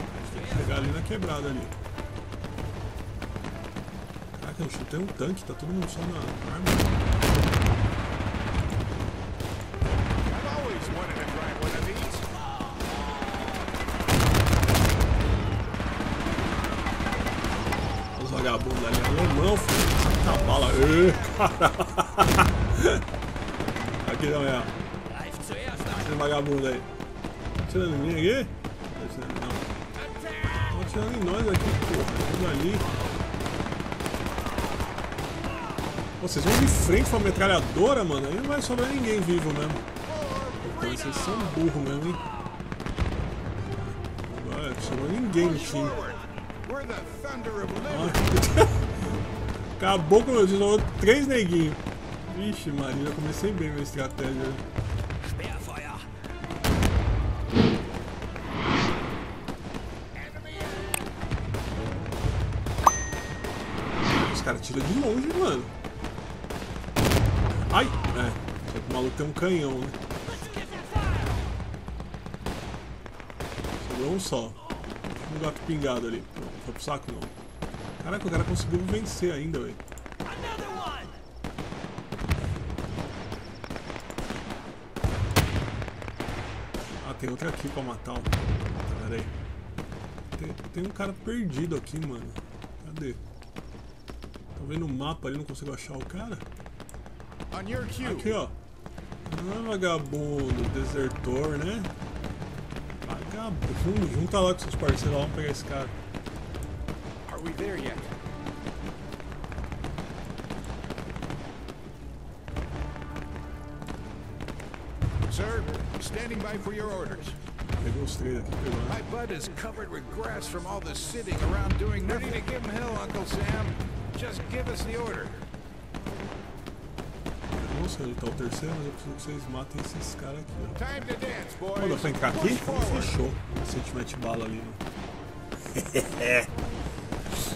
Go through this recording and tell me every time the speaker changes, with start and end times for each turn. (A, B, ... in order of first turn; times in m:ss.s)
0:00.2-0:01.7 A
0:04.3-0:07.0 A
0:10.3-0:12.3 B
0:18.2-0:23.0 A
0:24.0-0:24.7 A
0:25.8-0:26.9 A
0:27.6-0:29.7 A
0:30.7-0:32.9 A
0:36.2-0:39.9 A
0:40.0-0:41.4 B
0:40.6-0:42.2 A
0:43.8-0:46.0 A
0:45.7-0:48.2 B
0:47.9-0:48.9 A
0:49.8-0:54.7 A
1:04.1-1:05.7 A
1:07.7-1:10.0 A
1:13.8-1:17.3 A
1:18.0-1:19.8 A
1:27.0-1:29.3 A
1:30.4-1:33.2 A
1:34.6-1:36.5 A
1:37.5-1:38.4 B
1:38.0-1:38.6 A
1:39.2-1:41.9 A
1:43.0-1:46.0 A
1:47.3-1:48.2 B
1:55.3-1:57.4 B
1:57.8-1:59.0 A
1:58.9-2:05.4 B
2:07.5-2:10.8 A
2:10.8-2:13.1 B
2:11.8-2:14.8 A
2:15.7-2:16.5 A